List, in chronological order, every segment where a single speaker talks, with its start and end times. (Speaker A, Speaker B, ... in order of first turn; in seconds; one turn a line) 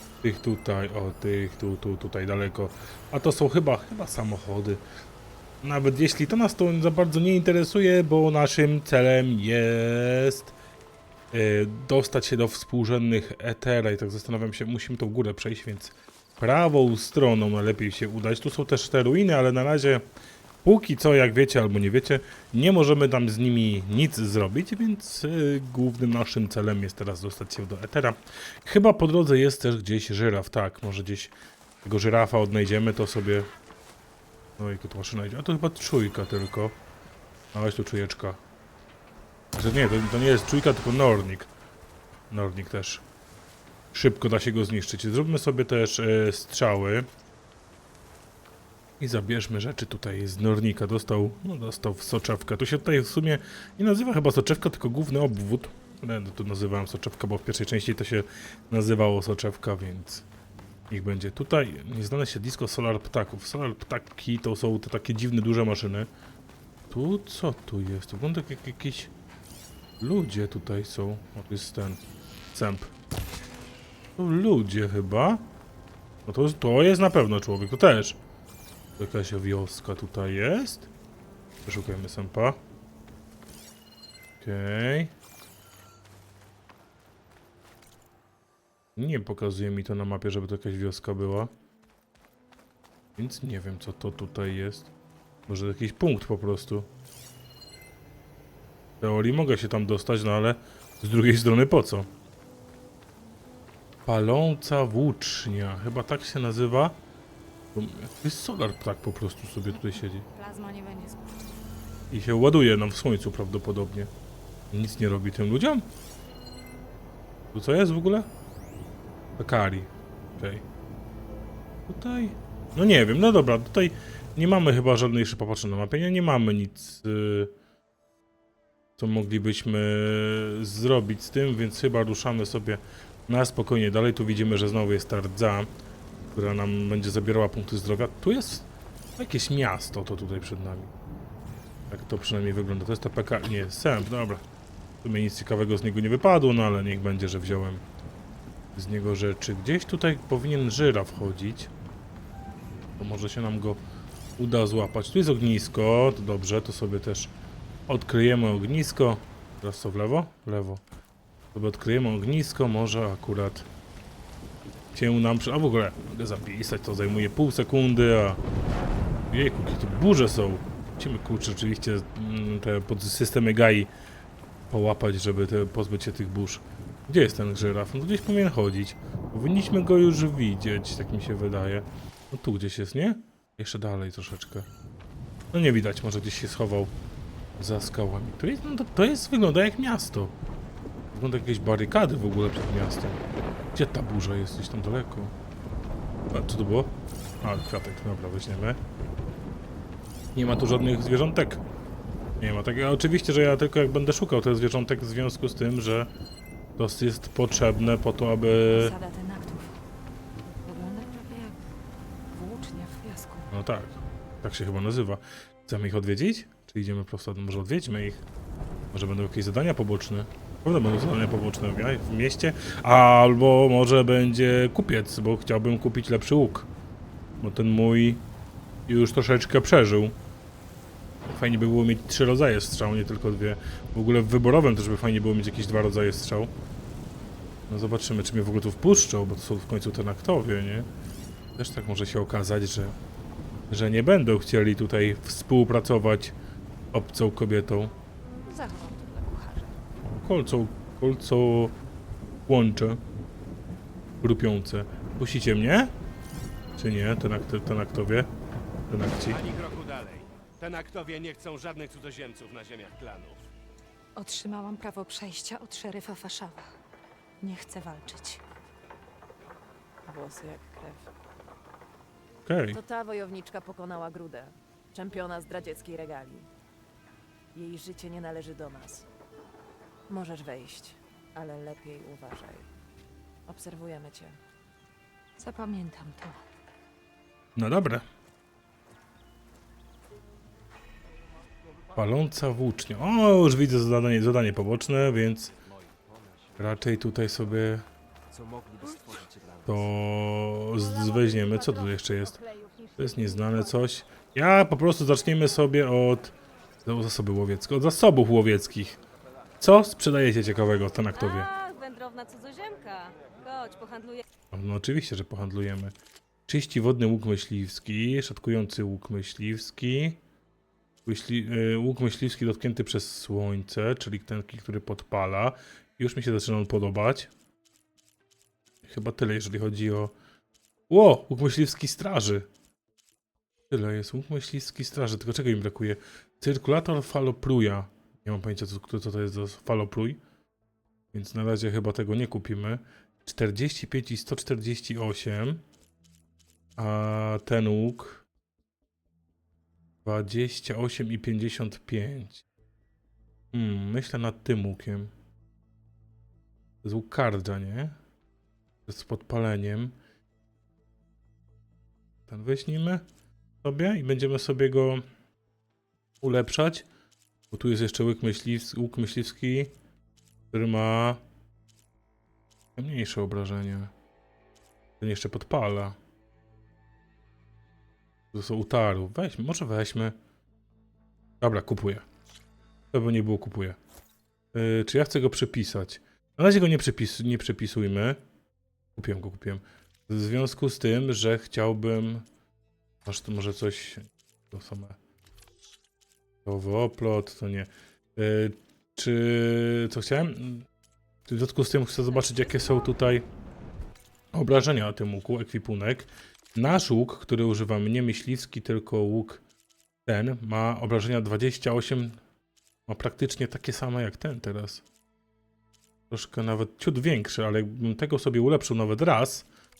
Speaker A: 0.2-4.8
Speaker A: 5.6-10.5
Speaker A: 11.3-20.0
Speaker A: 20.6-33.5
Speaker A: 34.6-36.8
Speaker A: 37.5-38.4
Speaker A: 39.5-41.5
Speaker A: 42.3-43.0
Speaker A: 43.9-47.1
Speaker A: 49.0-60.2
Speaker A: 60.9-66.1
Speaker A: 66.9-69.1
Speaker A: 70.0-72.0
Speaker A: 72.5-72.9
Speaker A: 74.2-75.4
Speaker A: 76.2-78.2
Speaker A: 79.0-80.9
Speaker A: 81.6-82.6
Speaker A: 84.4-85.1
Speaker A: 89.0-91.5
Speaker A: 93.2-94.9
Speaker A: 95.5-96.9
Speaker A: 99.0-102.1
Speaker A: 104.0-107.0
Speaker A: 107.7-110.2
Speaker B: 109.8-111.5
Speaker A: 112.1-114.1
Speaker A: 114.7-115.9
Speaker A: 117.5-118.3
Speaker A: 119.4-120.6
Speaker A: 121.9-127.5
Speaker A: 129.0-135.7
Speaker A: 136.3-140.9
Speaker A: 141.9-144.4
Speaker A: 145.0-147.8
Speaker A: 148.7-151.7
Speaker A: 153.0-153.8
Speaker A: 154.4-157.3
Speaker A: 157.9-160.8
Speaker A: 161.5-163.7
Speaker A: 164.9-168.4
Speaker A: 169.3-173.9
Speaker A: 174.7-184.7
Speaker A: 185.5-186.9
Speaker A: 187.6-190.3
Speaker A: 191.1-193.2
Speaker A: 193.7-195.3
Speaker A: 196.3-198.8
Speaker A: 200.3-201.6
Speaker A: 202.4-206.1
Speaker A: 206.8-208.9
Speaker B: 208.7-209.8
Speaker B: 210.6-211.6
Speaker B: 212.3-213.5
Speaker A: 213.5-218.2
Speaker A: 218.9-226.7
Speaker A: 227.4-228.2
Speaker A: 228.9-230.1
Speaker A: 231.3-236.5
Speaker A: 237.7-240.9
Speaker A: 241.6-243.0
Speaker A: 243.7-246.3
Speaker A: 246.9-247.9
Speaker B: 248.4-249.7
Speaker A: 250.0-251.7
Speaker A: 252.5-253.0
Speaker A: 254.2-255.9
Speaker A: 256.8-258.3
Speaker A: 258.9-259.4
Speaker C: 259.3-263.4
Speaker B: 264.1-266.7
Speaker B: 267.4-268.4
Speaker D: 270.1-271.1
Speaker A: 272.4-272.8
Speaker D: 272.7-276.5
Speaker D: 277.5-279.1
Speaker D: 280.1-282.7
Speaker D: 283.5-284.4
Speaker B: 285.4-286.4
Speaker A: 287.6-288.0
Speaker A: 291.9-295.5
Speaker C: 295.6-296.9
Speaker A: 296.6-297.8
Speaker C: 298.3-299.9
Speaker A: 299.6-302.4
Speaker B: 300.8-303.7
Speaker A: 303.0-309.0
Speaker A: 309.6-311.5
Speaker E: 311.1-314.2
Speaker A: 314.5-315.9
Speaker A: 316.5-320.2
Speaker A: 321.1-327.3
Speaker A: 328.9-330.1
Speaker A: 330.9-332.5
Speaker A: 333.7-340.2
Speaker A: 341.1-345.6
Speaker A: 346.8-348.2
Speaker A: 350.0-352.4
Speaker A: 353.5-355.1
Speaker A: 356.8-357.9
Speaker A: 358.9-359.9
Speaker A: 362.3-363.0
Speaker A: 363.6-365.0
Speaker A: 366.2-366.9
Speaker A: 367.5-369.7
Speaker A: 370.5-371.2
Speaker A: 372.8-373.9
Speaker A: 375.0-375.9
Speaker A: 378.3-380.1
Speaker A: 381.4-382.0
Speaker A: 382.9-383.8
Speaker A: 384.5-388.2
Speaker A: 388.9-392.2
Speaker A: 393.0-395.0
Speaker A: 396.4-400.6
Speaker A: 401.3-403.3
Speaker A: 404.3-409.4
Speaker A: 410.1-412.2
Speaker A: 412.9-414.8
Speaker A: 416.1-419.5